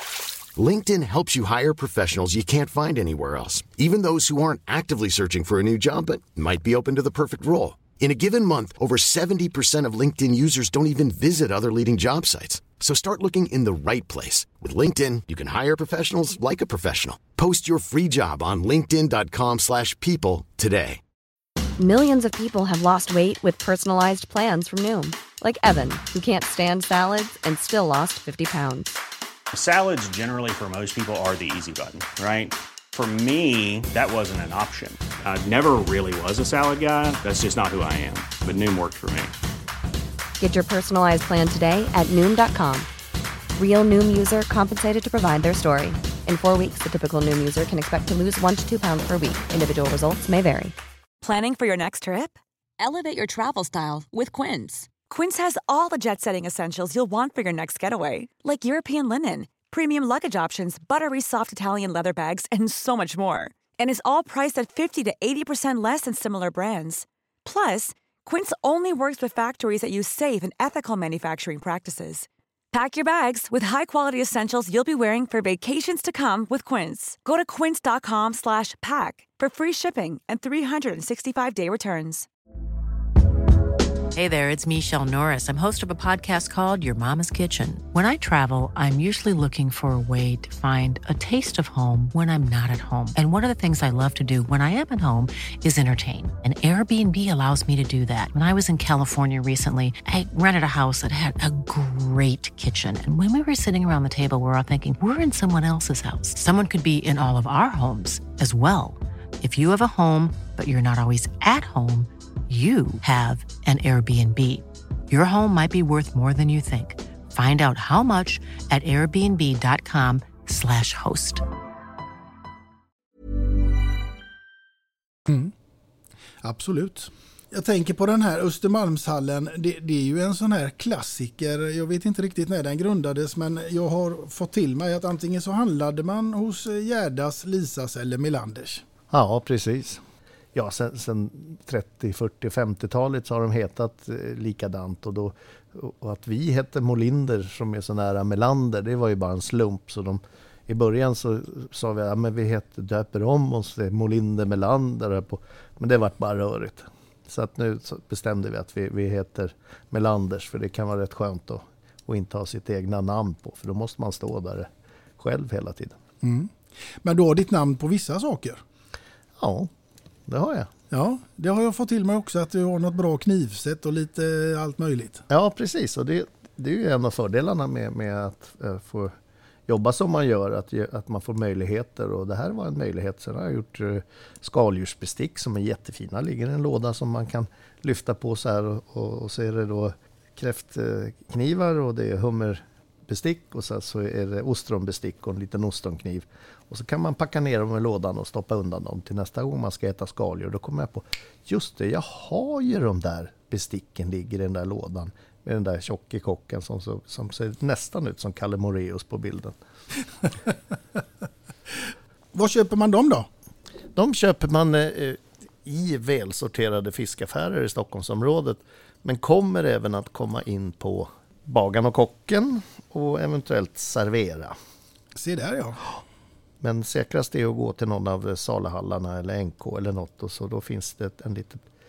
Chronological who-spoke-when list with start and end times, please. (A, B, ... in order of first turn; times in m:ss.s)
0:00.6-0:21.0 A
0:21.8-0:29.0 B
0:29.5-0:39.3 C
0:40.4-0:42.9 B
0:43.6-0:50.7 B
0:51.2-1:22.3 D
1:24.1-2:01.4 E
2:05.3-2:05.5 F
2:06.4-2:18.8 F
2:19.1-2:20.0 G
2:20.5-2:46.0 G
2:46.2-2:48.6 F
2:49.4-2:49.7 G
2:50.3-2:50.7 G
2:50.9-2:55.2 F
2:55.3-2:59.1 G
2:59.7-3:29.6 G
3:32.3-3:33.3 F
3:34.0-3:44.5 G
3:45.1-3:45.8 F
3:46.6-3:51.6 G